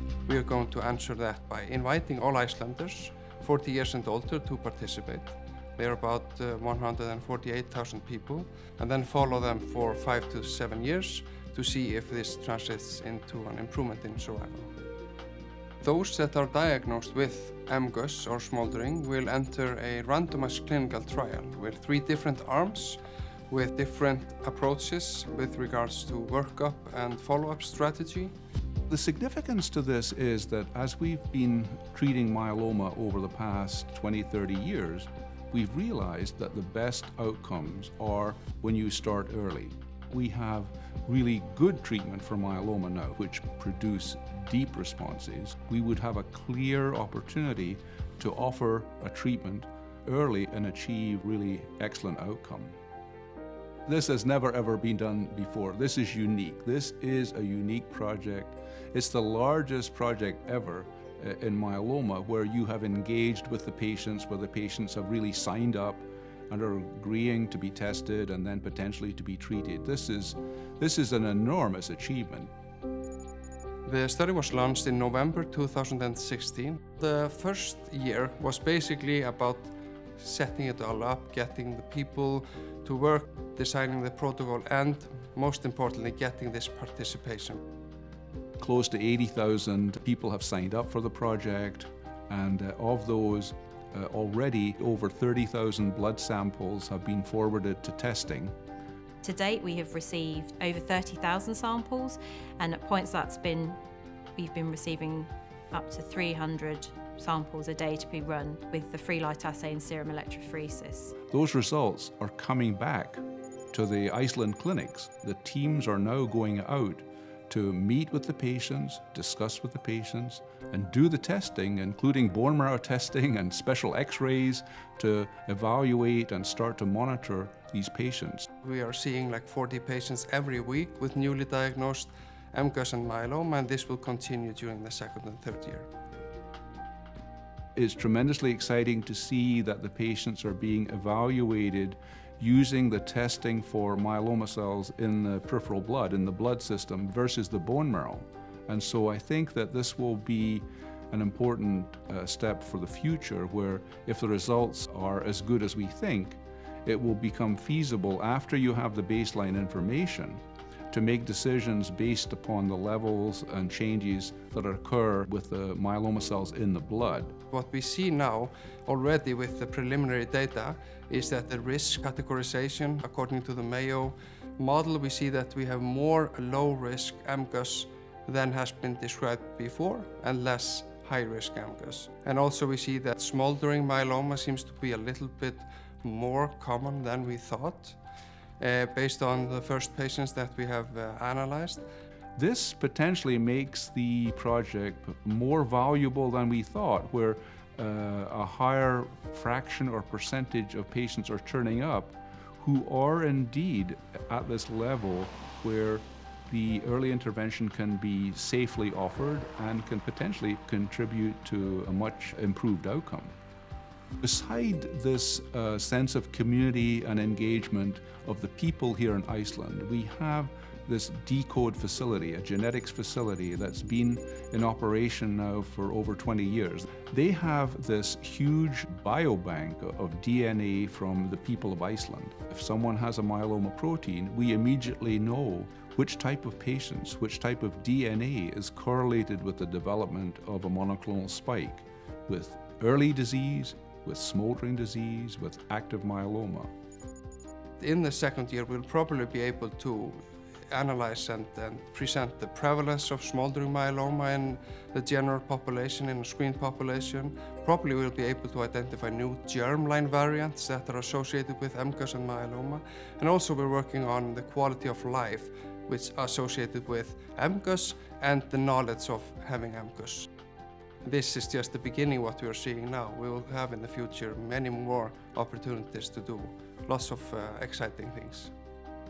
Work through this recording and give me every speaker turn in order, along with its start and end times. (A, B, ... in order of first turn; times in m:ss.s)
0:00.3-0:14.7 A
0:15.8-0:28.3 A
0:28.9-0:52.8 B
0:53.9-1:12.5 B
1:13.9-1:27.6 A
1:28.6-1:38.6 B
1:39.2-1:43.8 C
1:44.4-1:51.2 C
1:51.3-2:08.5 B
2:08.6-2:15.9 A
2:17.8-2:47.4 B
2:47.5-3:08.0 A
3:08.6-3:11.8 A
3:12.4-3:33.4 B
3:34.2-4:06.7 B
4:07.8-4:30.3 A
4:31.0-4:38.5 A